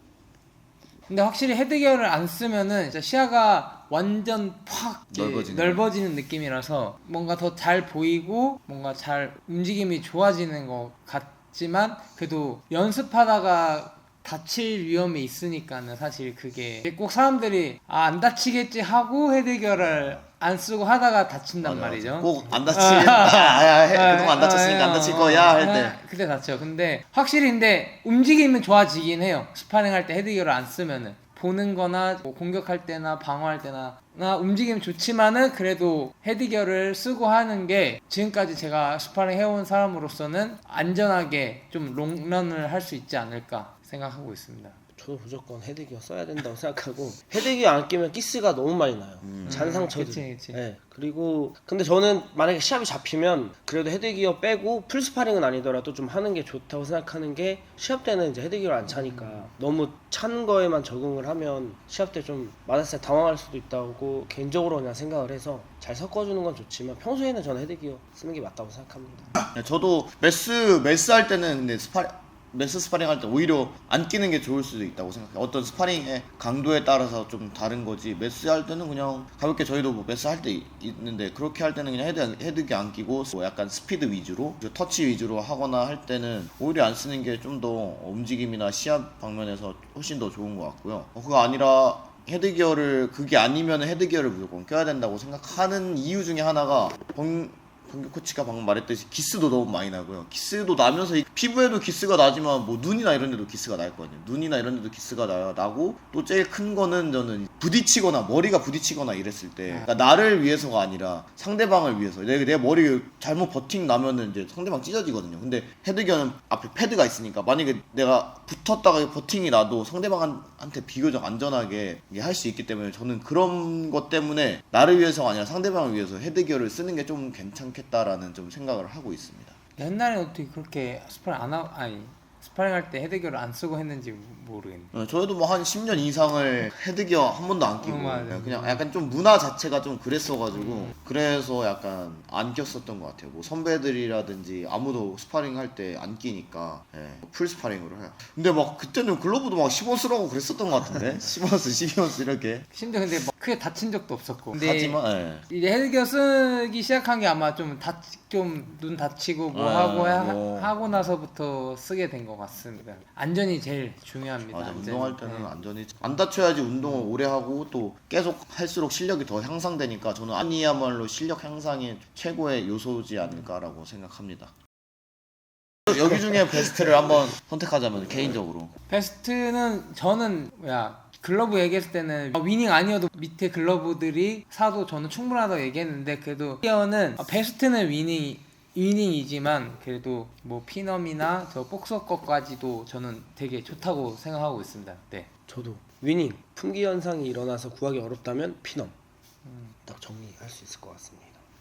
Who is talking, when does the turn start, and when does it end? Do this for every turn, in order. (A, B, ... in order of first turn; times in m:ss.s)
0:01.1-0:44.8 A
0:05.1-0:05.8 B
0:19.8-0:20.2 B
0:21.6-0:26.0 B
0:45.0-1:09.3 C
0:49.2-0:49.7 B
0:49.4-0:50.6 A
0:58.9-0:59.4 A
1:09.4-2:09.6 B
2:09.8-2:14.9 A
2:14.9-2:32.7 B
2:17.8-2:18.8 A
2:32.7-2:45.5 A
2:34.5-2:35.5 B
2:39.5-2:40.7 B
2:44.5-2:54.5 B
2:55.9-2:58.7 B
2:58.9-3:15.3 A
3:15.5-3:18.9 C
3:19.4-3:19.7 A
3:19.8-3:21.4 C